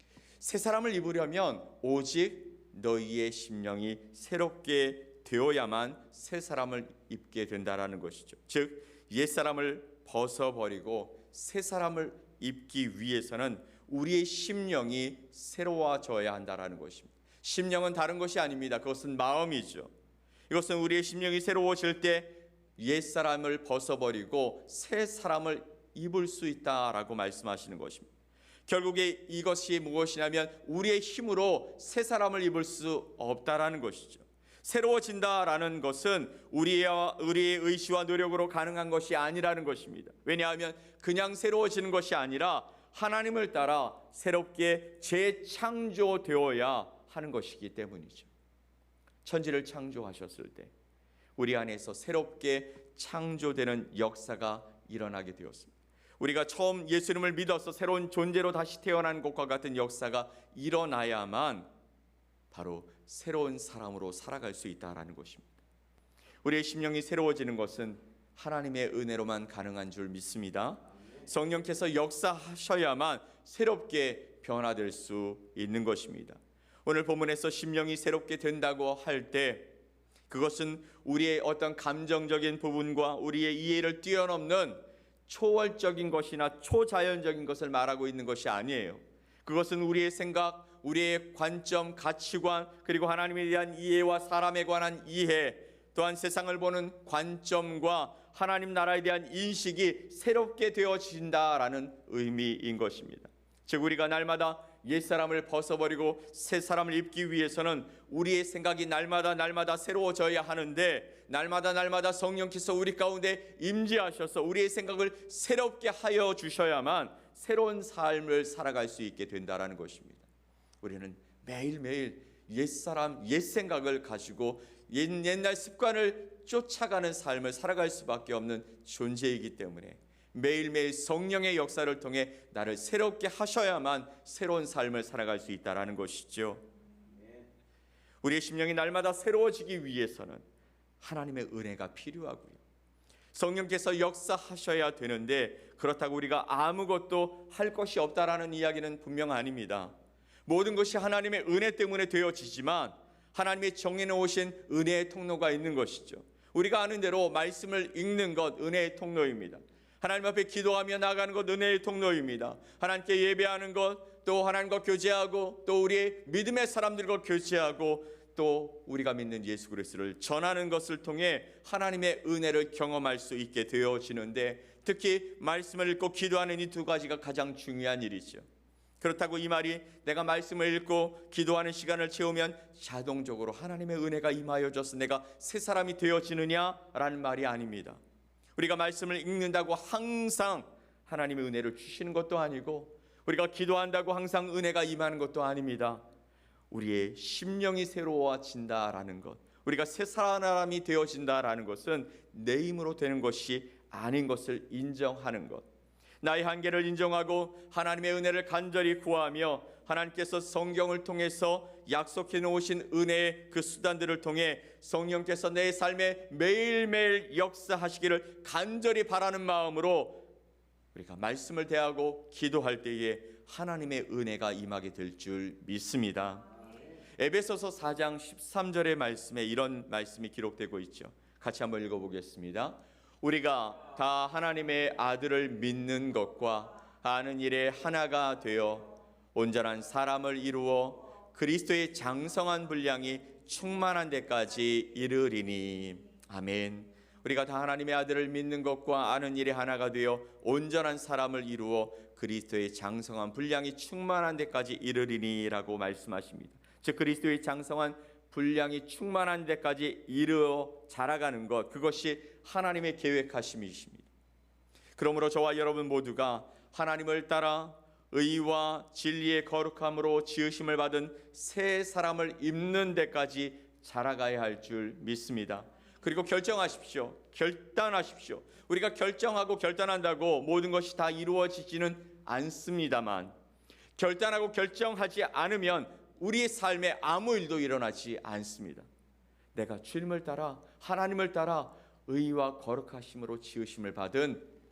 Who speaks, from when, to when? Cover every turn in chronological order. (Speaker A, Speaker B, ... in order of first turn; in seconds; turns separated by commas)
Speaker A: 0.4-19.9, Speaker A: 20.5-28.1, Speaker A: 28.7-48.3, Speaker A: 49.2-50.7, Speaker A: 51.4-61.7, Speaker A: 62.5-65.5, Speaker A: 66.4-79.7, Speaker A: 80.3-120.3, Speaker A: 120.8-136.6, Speaker A: 138.2-140.4, Speaker A: 141.0-142.6, Speaker A: 143.3-149.9, Speaker A: 150.5-178.4, Speaker A: 179.0-188.0, Speaker A: 188.6-196.0, Speaker A: 196.7-205.7, Speaker A: 206.2-220.2, Speaker A: 220.9-226.5, Speaker A: 227.2-264.1, Speaker A: 265.0-283.3, Speaker A: 284.0-288.9, Speaker A: 289.5-294.5